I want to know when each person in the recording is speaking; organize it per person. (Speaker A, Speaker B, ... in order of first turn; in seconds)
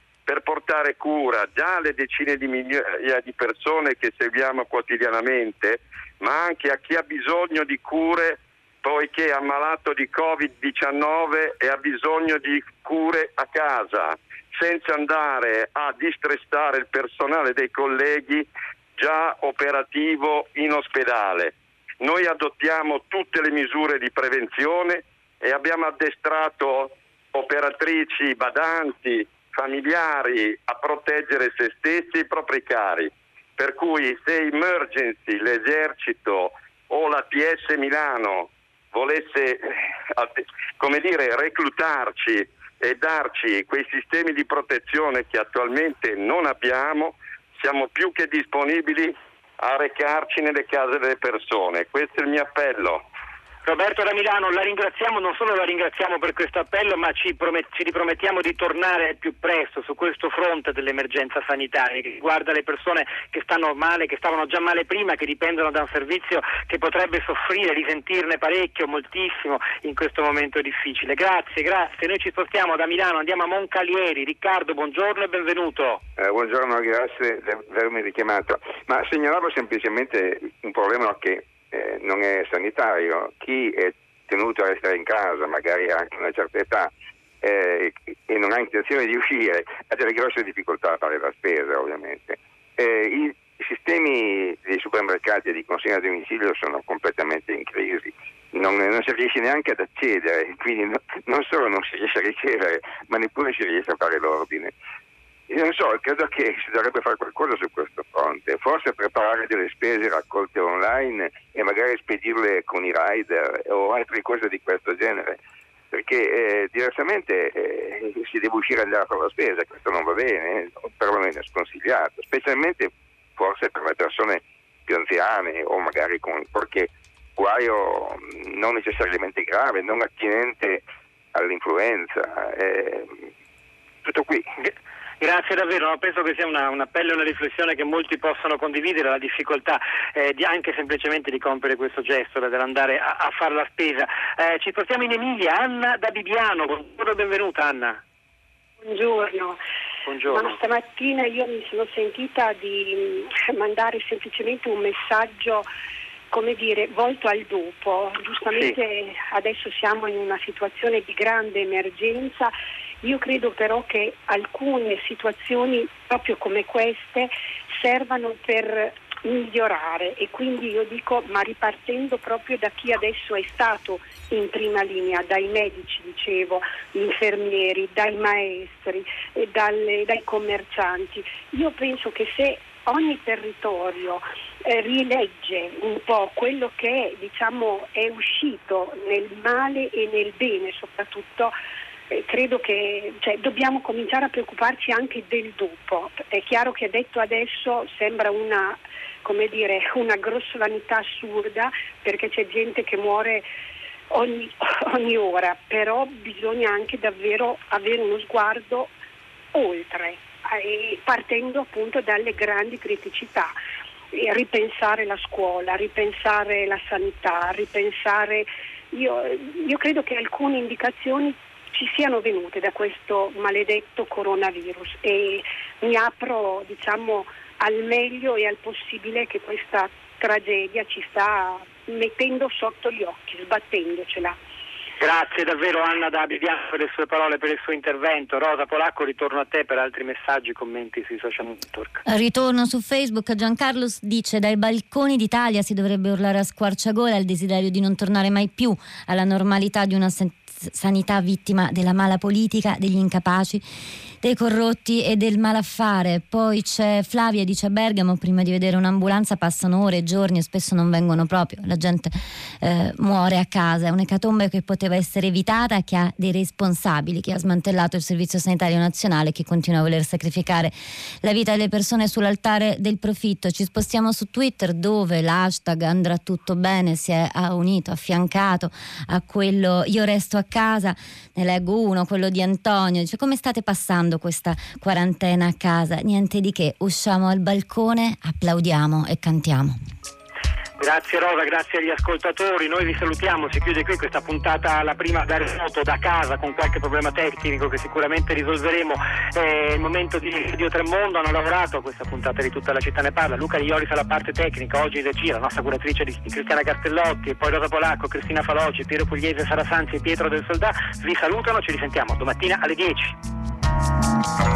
Speaker A: 0.3-53.0
Speaker B: 53.6-76.0, 134.6-148.0, 150.1-150.6, 158.5-158.8, 235.0-242.0, 290.8-313.2
Speaker C: 76.2-104.7, 105.5-115.4, 115.9-133.2, 134.0-134.5
Speaker D: 148.8-149.6, 150.2-155.7, 156.3-191.6, 192.1-203.5, 204.1-208.9, 209.5-213.6, 214.1-234.4
Speaker E: 242.1-253.7, 254.2-289.8